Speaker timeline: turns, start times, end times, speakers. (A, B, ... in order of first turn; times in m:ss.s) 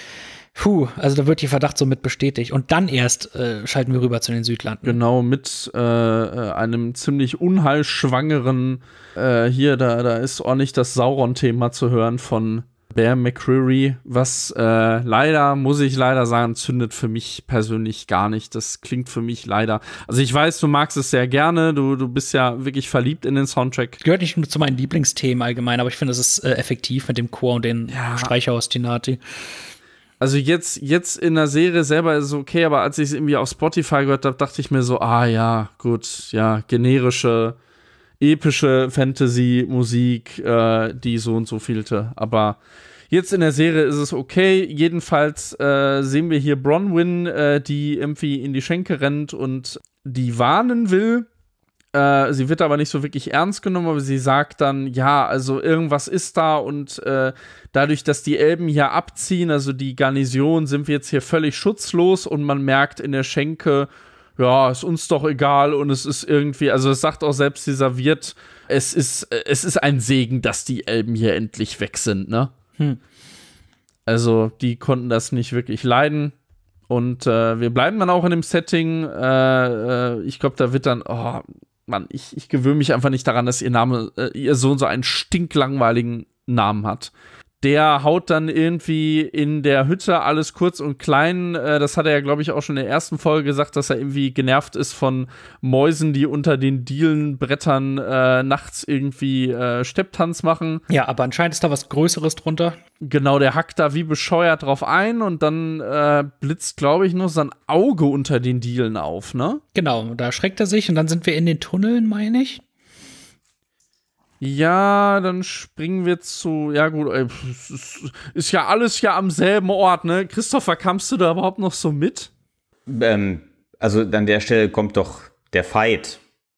0:00.6-0:05.0 A
0:04.8-0:24.0 B
0:24.0-0:29.2 A
0:27.9-0:28.3 B
0:30.2-0:37.6 B
0:38.2-0:42.6 B
0:43.1-0:51.3 B
0:51.9-1:12.5 B
1:14.1-1:16.3 B
1:16.9-1:40.8 B
1:40.9-1:42.8 A
1:43.0-1:49.6 B
1:49.7-1:52.6 A
1:54.4-2:02.3 B
2:02.9-2:06.2 C